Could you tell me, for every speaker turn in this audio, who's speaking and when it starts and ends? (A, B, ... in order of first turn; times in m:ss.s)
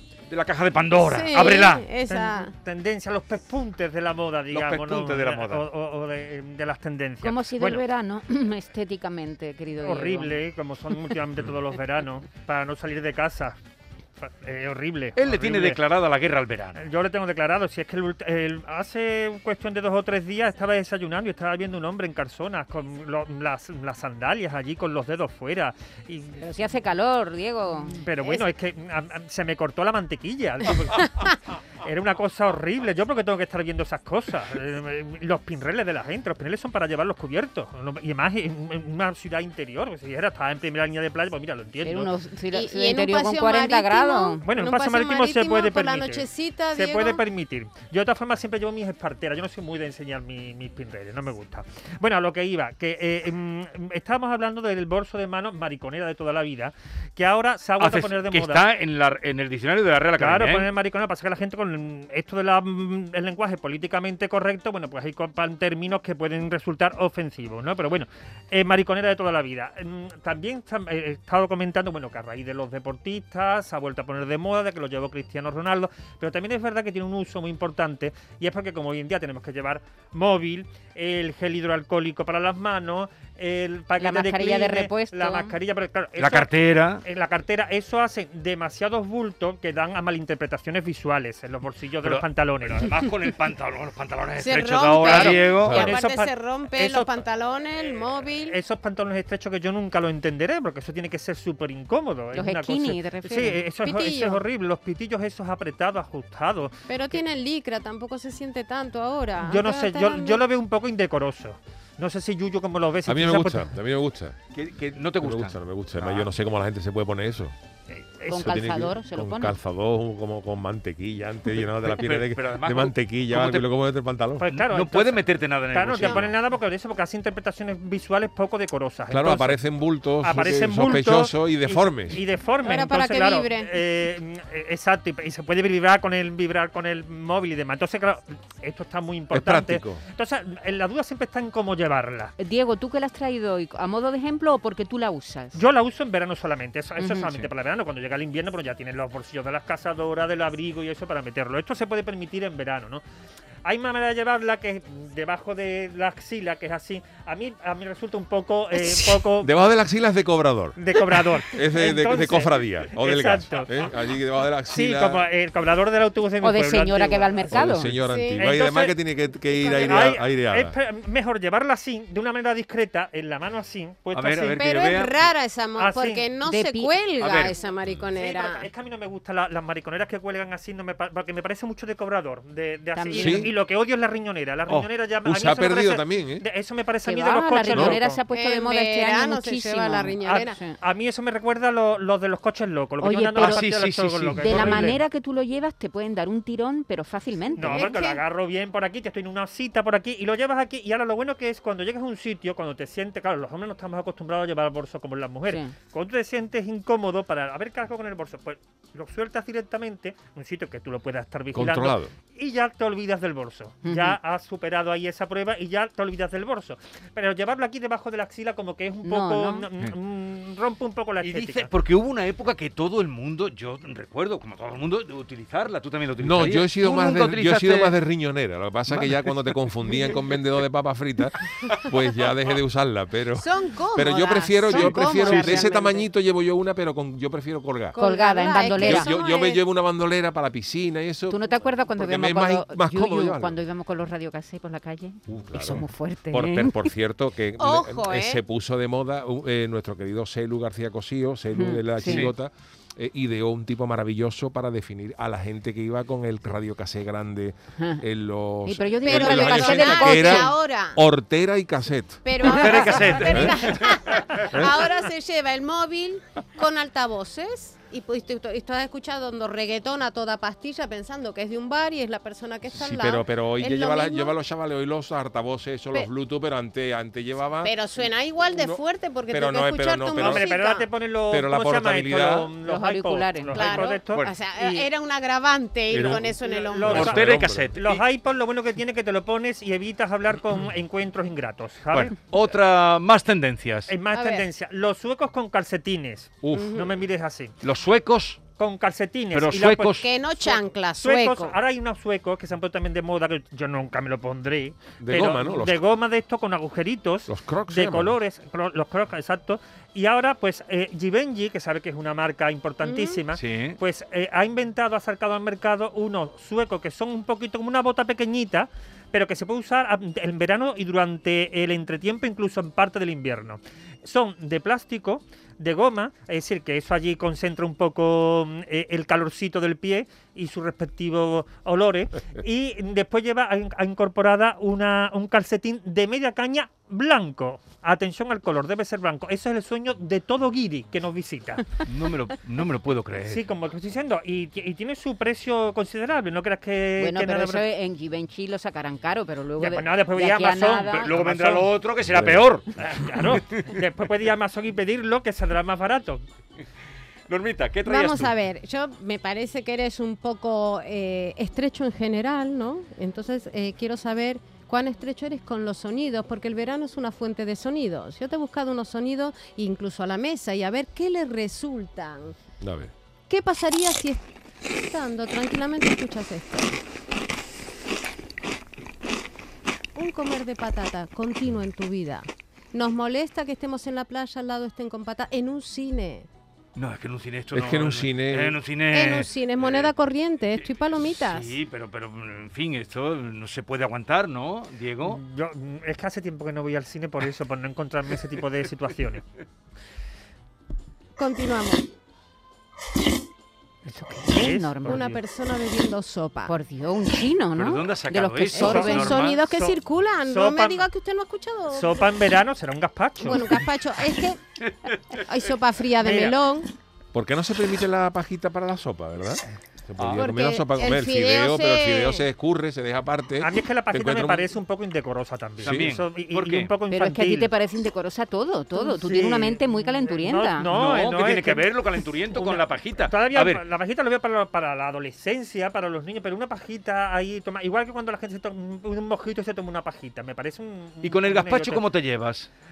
0:00.3-0:01.9 A
0:00.9-0:02.6 B
0:02.1-0:07.8 C
0:04.5-0:05.6 A
0:07.2-0:10.4 D
0:09.8-0:13.6 C
0:14.2-0:15.8 C
0:15.2-0:16.8 A
0:16.8-0:26.5 C
0:26.4-0:28.0 D
0:27.8-0:42.2 C
0:41.8-0:44.4 D
0:42.5-0:47.2 B
0:44.4-0:58.7 C
0:57.8-1:00.7 A
1:00.2-1:26.5 C
1:24.0-1:25.6 D
1:26.2-1:27.0 A
1:27.0-1:33.0 C
1:32.0-1:35.9 A
1:34.4-1:38.6 B
1:35.0-1:47.2 C
1:35.6-1:36.0 E
1:42.3-1:43.6 D
1:43.8-1:44.4 B
1:46.9-1:50.5 B
1:49.4-1:53.7 C
1:53.1-1:54.4 E
1:54.5-1:55.6 A
1:55.2-1:57.6 E
1:57.9-1:58.6 C
1:58.3-1:59.6 D
1:58.4-2:04.4 E
2:01.5-2:03.7 A
2:04.4-2:09.6 C
2:04.5-2:06.3 A
2:09.1-2:12.2 E
2:10.2-2:22.3 C
2:12.6-2:13.8 B
2:19.3-2:20.0 E
2:22.4-2:25.6 D
2:25.5-2:33.0 C
2:27.0-2:27.3 D
2:33.6-2:39.5 C
2:39.4-2:40.8 E
2:40.8-2:43.9 C
2:41.5-2:45.2 E
2:44.7-2:47.6 C
2:46.4-2:47.9 D
2:47.5-2:50.8 E
2:47.8-2:48.5 B
2:48.4-2:49.0 C
2:49.4-2:50.2 B
2:49.8-2:54.6 C
2:54.1-2:55.2 A
2:54.6-2:58.7 B
2:55.8-2:56.3 C
2:56.4-2:57.0 D
2:57.2-2:57.5 C
2:57.2-2:57.5 A
2:58.1-3:08.2 C
3:02.9-3:03.5 D
3:03.2-3:03.5 E
3:05.2-3:06.4 E
3:07.0-3:10.8 D
3:08.3-3:10.6 B
3:10.2-3:15.0 C
3:13.0-3:13.6 D
3:13.3-3:15.0 A
3:14.4-3:17.9 D
3:17.6-3:18.2 B
3:17.6-3:41.7 C
3:25.5-3:25.7 D
3:31.5-3:32.1 E
3:33.8-3:34.2 D
3:39.0-3:39.7 D
3:41.2-3:48.0 A
3:46.2-3:58.0 E
3:48.9-3:50.4 A
3:53.4-3:56.1 B
3:54.7-3:55.7 A
3:57.9-3:59.6 B
3:58.0-3:59.1 D
3:58.8-4:03.6 E
4:01.3-4:06.9 D
4:05.3-4:22.2 E
4:07.6-4:08.4 B
4:11.5-4:12.3 D
4:12.0-4:12.3 A
4:17.8-4:18.0 D
4:18.6-4:20.5 D
4:19.0-4:21.0 B
4:22.2-4:34.4 B
4:22.4-4:24.2 A
4:22.8-4:23.6 E
4:24.5-4:24.8 E
4:32.7-4:37.8 E
4:37.6-4:40.9 B
4:38.5-4:40.5 E
4:40.1-4:44.3 C
4:41.3-4:42.5 E
4:42.6-4:43.7 D
4:43.5-4:47.0 B
4:44.1-4:44.8 A
4:45.9-4:46.3 E
4:45.9-4:46.2 A
4:46.1-4:52.1 C
4:46.8-4:47.7 E
4:46.9-4:48.0 A
4:51.9-4:54.0 A
4:53.9-4:57.5 C
4:54.1-4:54.5 B
4:56.4-4:56.8 E
4:56.5-4:57.0 B
4:57.6-4:58.4 A
4:58.6-5:41.7 C
4:59.3-5:00.1 A
5:00.0-5:01.6 B
5:05.0-5:05.8 E
5:07.3-5:08.2 E
5:12.8-5:13.2 B
5:13.3-5:13.8 A
5:41.8-5:43.4 A
5:43.2-5:47.6 C
5:47.0-5:51.2 D
5:49.6-5:51.7 C
5:51.0-5:53.7 A
5:52.1-5:52.4 E
5:52.8-5:56.2 C
5:57.3-5:58.3 A
5:57.8-6:12.4 B
6:12.6-6:12.9 E
6:13.3-6:14.2 B
6:14.8-6:16.8 B
6:20.0-6:26.3 B
6:26.8-6:29.9 A
6:27.5-6:28.6 E
6:28.9-6:31.6 B
6:30.5-6:35.2 A
6:35.0-6:39.2 C
6:41.2-6:41.8 B
6:43.9-6:45.1 D
6:44.3-6:45.2 C
6:44.8-6:46.6 B
6:46.4-6:49.2 D
6:47.5-6:49.5 A
6:48.5-6:52.2 B
6:48.6-6:50.9 C
6:51.7-6:53.5 C
6:53.2-6:54.4 B
6:54.9-6:56.7 B
6:55.9-6:56.4 C
6:57.1-7:04.5 E
7:00.0-7:00.2 A
7:00.1-7:02.3 B
7:03.4-7:07.5 C
7:05.6-7:06.7 A
7:06.9-7:10.7 D
7:08.7-7:11.7 C
7:10.7-7:13.6 A
7:12.3-7:21.9 C
7:21.0-7:22.5 A